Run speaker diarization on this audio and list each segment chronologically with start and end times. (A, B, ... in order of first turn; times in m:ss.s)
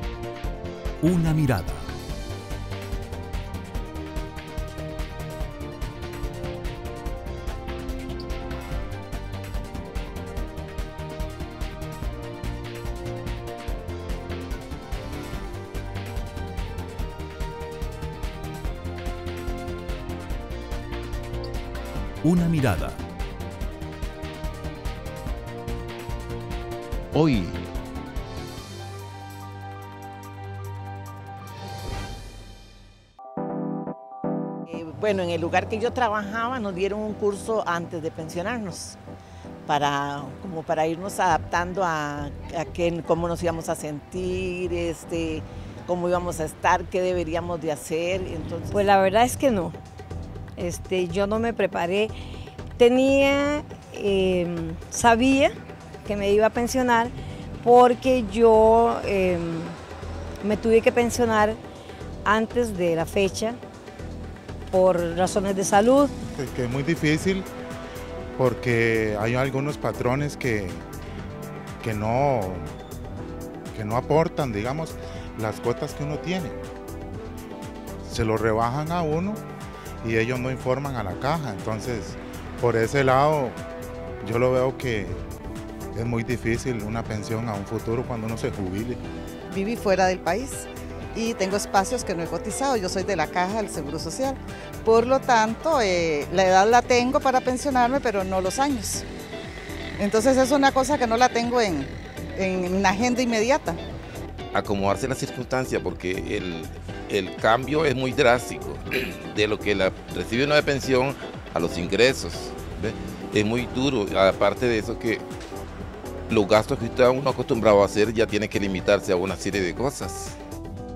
0:01.0-0:01.9 A
0:22.2-0:23.0 A
0:27.1-0:27.6 A
0:34.7-0:39.0 B
0:39.7-0:48.7 B
0:48.7-0:49.8 C
0:50.6-0:52.1 C
0:52.8-0:59.8 C
1:00.4-1:01.6 C
1:02.2-1:03.6 C
1:04.7-1:06.1 C
1:06.3-1:07.5 D
1:08.4-1:10.8 D
1:11.8-1:12.7 D
1:13.7-1:16.6 D
1:18.0-1:19.4 D
1:20.0-1:23.6 D
1:24.2-1:25.2 D
1:25.9-1:29.0 D
1:29.5-1:39.0 E
1:40.0-1:43.8 E
1:44.5-1:55.2 F
1:56.3-2:00.4 F